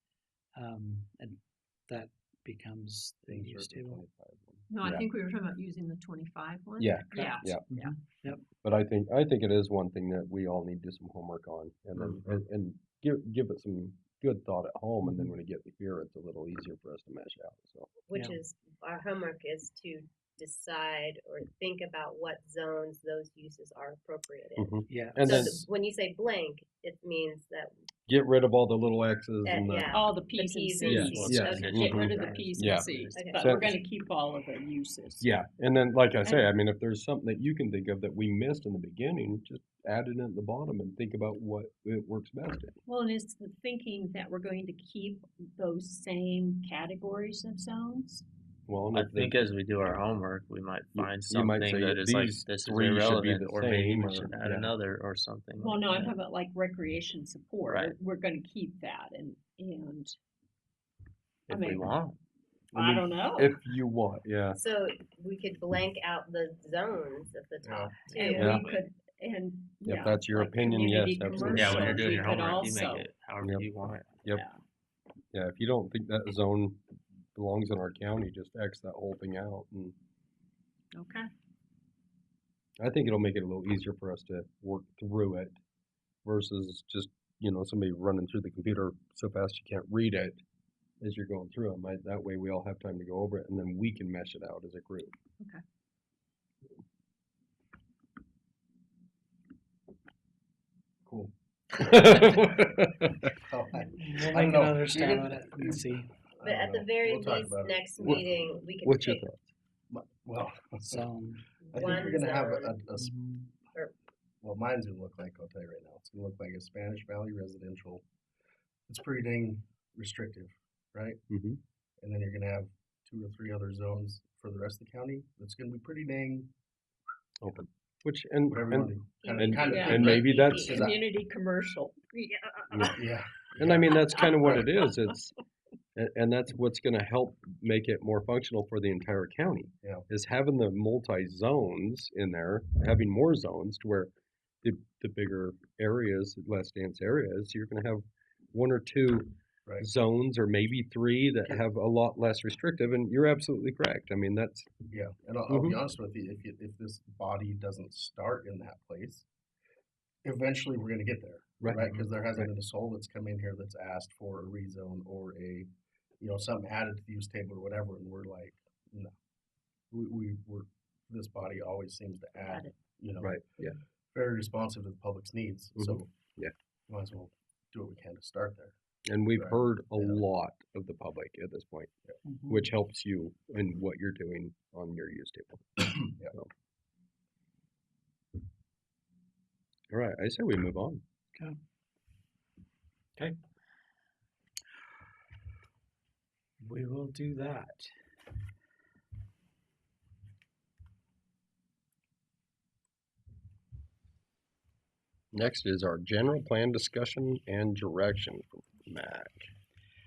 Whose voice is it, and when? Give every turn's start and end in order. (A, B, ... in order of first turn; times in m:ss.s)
0:00.6-0:04.0 A
0:03.3-0:05.1 B
0:04.7-0:08.0 C
0:06.8-0:07.6 B
0:07.1-0:08.4 A
0:08.6-0:17.9 B
0:15.0-0:15.3 A
0:18.1-0:27.9 D
0:18.1-0:18.4 A
0:24.6-0:25.7 B
0:24.9-0:25.5 A
0:28.1-0:30.0 B
0:29.4-0:32.4 D
0:29.9-0:35.3 C
0:30.9-0:33.8 B
0:31.0-0:33.3 E
0:33.1-0:33.7 D
0:35.2-0:42.8 B
0:42.9-0:48.2 C
0:48.7-0:49.4 B
0:48.9-0:56.1 E
0:51.0-0:54.8 B
0:55.6-1:00.2 C
0:57.7-0:58.0 E
1:01.5-1:01.9 C
1:01.5-1:02.2 E
1:02.7-1:03.6 C
1:02.7-1:04.6 B
1:04.6-1:08.7 D
1:07.6-1:08.0 F
1:08.1-1:08.8 E
1:08.2-1:13.1 C
1:08.4-1:08.6 B
1:09.8-1:12.0 B
1:11.4-1:14.2 E
1:13.4-1:13.7 B
1:14.3-1:14.6 C
1:15.3-1:20.0 B
1:20.9-1:21.3 C
1:22.8-1:25.6 B
1:26.2-1:30.4 B
1:31.0-1:35.1 B
1:41.1-1:41.3 F
1:41.8-1:43.3 B
1:43.4-1:45.8 F
1:44.0-1:46.1 A
1:44.9-1:45.8 D
1:46.4-1:48.4 F
1:46.4-1:49.3 D
1:48.0-1:48.2 B
1:48.8-1:49.5 B
1:49.9-1:51.1 F
1:50.9-1:51.4 A
1:51.7-1:53.2 F
1:51.7-1:52.8 D
1:53.0-1:53.5 A
1:54.4-1:58.0 F
1:58.9-2:01.2 F
2:01.3-2:01.6 B
2:02.0-2:06.5 F
2:07.4-2:10.8 B
2:08.5-2:11.0 F
2:09.2-2:10.9 D
2:09.6-2:13.1 C
2:12.7-2:13.0 B
2:12.9-2:14.7 F
2:13.6-2:15.4 B
2:14.0-2:14.6 C
2:16.0-2:24.1 B
2:24.6-2:34.7 B
2:34.9-2:39.3 F
2:35.5-2:35.8 B
2:40.2-2:45.7 F
2:41.6-2:42.5 B
2:46.2-2:49.1 F
2:49.9-2:53.4 F
2:52.4-2:52.8 C
2:53.2-2:53.8 B
2:54.1-2:56.1 F
2:55.8-2:56.5 B
2:56.9-2:58.7 F
2:59.1-3:01.9 B
2:59.3-3:00.2 F
3:02.3-3:02.6 A
3:02.5-3:06.5 B
3:09.9-3:11.0 B
3:16.6-3:17.9 A
3:25.3-3:29.5 B